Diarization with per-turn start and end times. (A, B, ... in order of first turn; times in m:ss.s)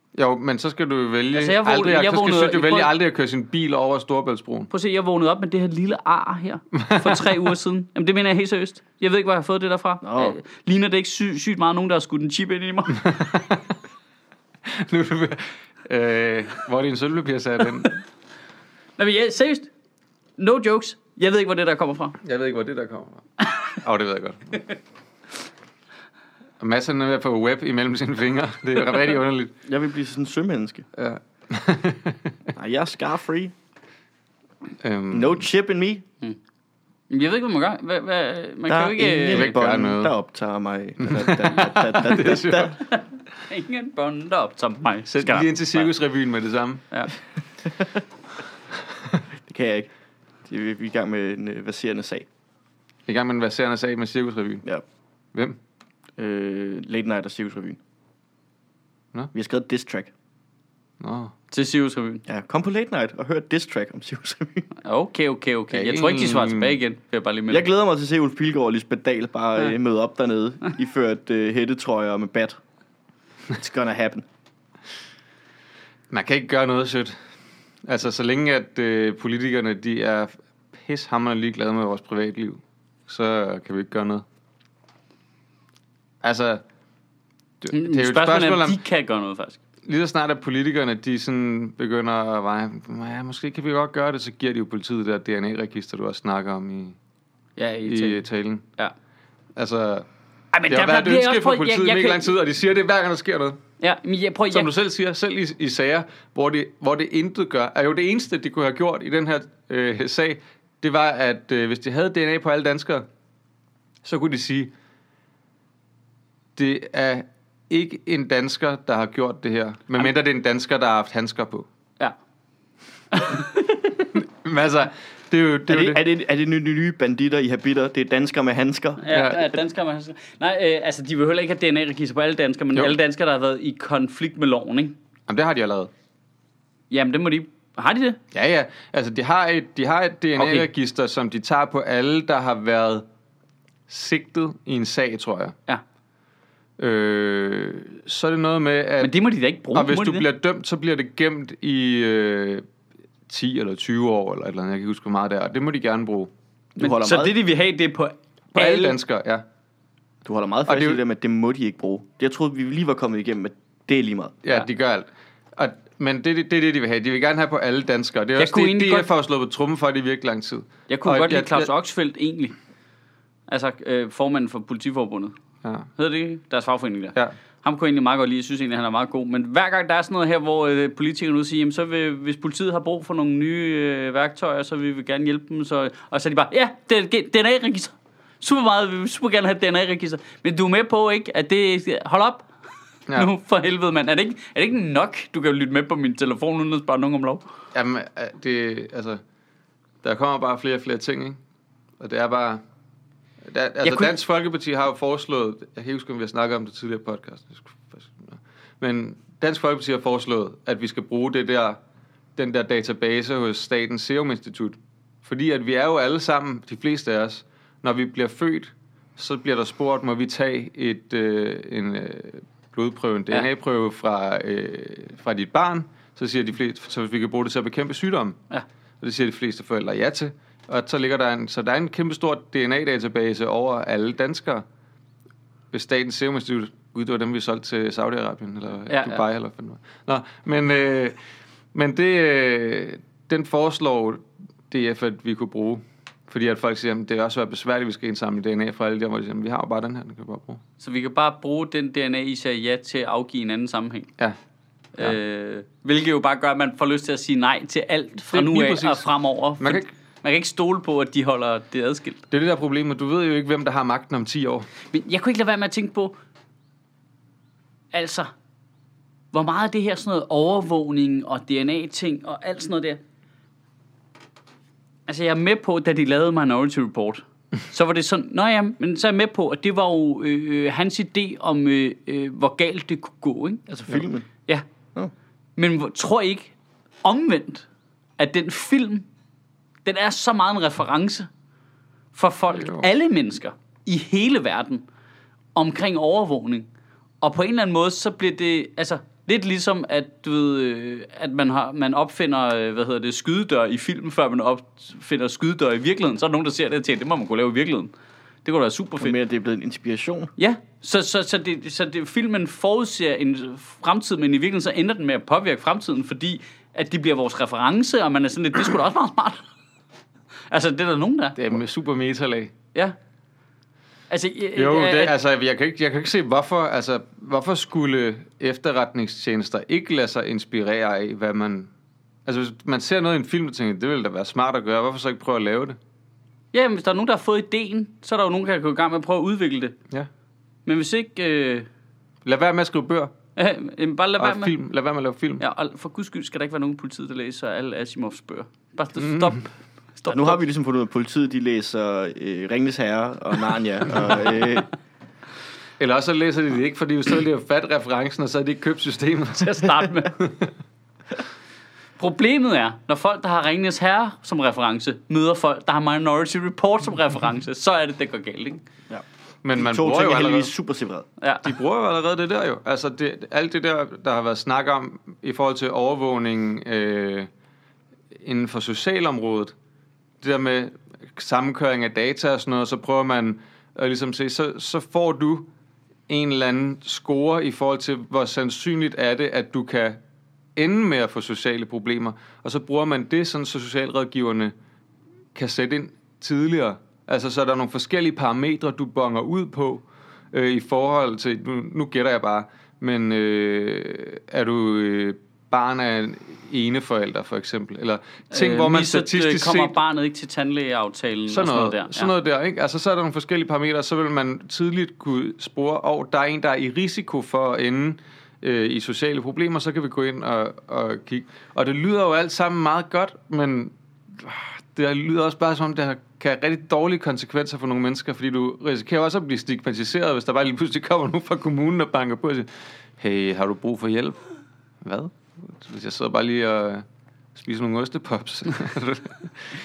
0:00.1-0:04.7 A
0:01.3-0:02.9 B
0:04.7-0:13.2 B
0:06.7-0:07.4 A
0:10.0-0:10.4 C
0:13.0-0:13.7 A
0:14.6-0:18.0 A
0:19.0-0:19.7 B
0:20.4-0:22.2 B
0:22.2-0:23.2 A
0:23.4-0:23.7 B
0:23.8-0:24.6 A
0:26.6-0:29.5 A
0:29.6-0:30.8 C
0:30.9-0:32.3 A
0:32.5-0:33.5 C
0:34.8-0:35.4 A
0:35.1-0:36.0 C
0:37.1-0:39.5 B
0:38.7-0:42.8 C
0:39.3-0:40.1 A
0:41.0-0:42.8 A
0:42.8-0:45.9 B
0:45.1-0:46.8 A
0:49.4-0:49.9 C
0:50.5-0:52.3 C
0:53.0-0:54.6 A
0:56.2-0:57.8 C
0:59.3-1:00.1 C
1:01.0-1:01.3 A
1:01.5-1:02.2 B
1:02.2-1:04.7 C
1:04.8-1:07.7 B
1:05.7-1:06.8 A
1:07.5-1:12.6 C
1:13.5-1:14.2 C
1:16.1-1:17.1 A
1:17.8-1:24.2 A
1:26.2-1:26.6 A
1:27.6-1:28.8 A
1:27.7-1:29.6 B
1:29.9-1:37.0 A
1:37.6-1:38.2 B
1:37.8-1:38.6 A
1:39.6-1:40.1 A
1:40.5-1:42.3 B
1:40.7-1:43.6 A
1:43.8-1:44.7 B
1:44.5-1:53.0 A
1:54.0-1:54.7 A
1:56.6-2:01.6 A
2:03.1-2:04.1 B
2:04.1-2:06.0 A
2:05.7-2:09.0 C
2:09.0-2:15.0 B
2:09.1-2:09.5 A
2:15.3-2:15.9 A
2:16.9-2:18.2 B
2:18.3-2:23.0 A
2:20.4-2:20.7 B
2:23.9-2:25.5 A
2:26.8-2:29.1 A
2:29.0-2:30.3 B
2:29.7-2:32.6 A
2:33.3-2:36.3 A
2:36.8-2:37.3 C
2:36.8-2:39.0 B
2:38.5-2:39.4 A
2:40.2-2:44.4 C
2:40.7-2:41.0 A
2:44.4-2:51.7 A
2:48.4-2:49.1 B
2:50.9-2:52.6 B
2:53.5-2:55.3 B
2:56.0-3:12.5 B
3:13.1-3:17.4 B
3:17.7-3:19.2 A
3:20.0-3:21.4 A
3:22.0-3:22.6 A
3:23.4-3:31.8 A
3:23.8-3:24.1 B
3:32.4-3:48.4 A
3:49.0-3:54.6 A
3:55.7-4:01.2 A
3:58.9-3:59.2 B
4:01.7-4:10.6 A
4:10.8-4:14.1 B
4:15.0-4:22.2 B
4:18.3-4:19.1 A
4:19.6-4:19.9 A
4:22.3-4:24.7 A
4:24.9-4:26.2 B
4:27.9-4:28.3 B
4:29.3-4:33.0 B
4:35.1-4:44.6 B
4:43.7-4:44.3 C
4:45.6-4:46.5 B
4:47.0-4:47.6 B
4:48.2-4:49.0 B
4:49.8-4:51.3 B
4:52.1-4:54.8 B
4:52.5-4:52.9 A
4:55.5-4:56.7 B
4:57.2-5:07.9 B
5:08.4-5:09.1 B
5:09.0-5:10.3 C
5:10.4-5:19.4 B
5:20.5-5:21.4 B
5:21.4-5:22.5 A
5:24.1-5:25.2 B
5:24.6-5:31.7 A
5:32.2-5:35.8 A
5:36.5-5:39.7 B
5:40.6-5:41.7 B
5:42.2-5:43.1 A
5:43.4-5:44.5 B
5:44.2-5:45.4 A
5:45.4-5:50.4 B
5:49.0-5:49.4 A
5:50.1-5:54.7 C
5:55.8-6:00.5 A
5:59.4-6:00.2 B
6:02.0-6:08.6 B
6:09.4-6:10.5 A
6:09.5-6:11.0 C
6:11.2-6:11.5 B
6:11.4-6:17.3 A
6:18.2-6:19.5 A
6:20.2-6:25.5 A
6:26.1-6:30.0 A
6:30.6-6:34.5 A
6:35.3-6:49.8 A
6:48.3-6:52.1 B
6:51.3-7:14.2 A
7:14.8-7:19.4 A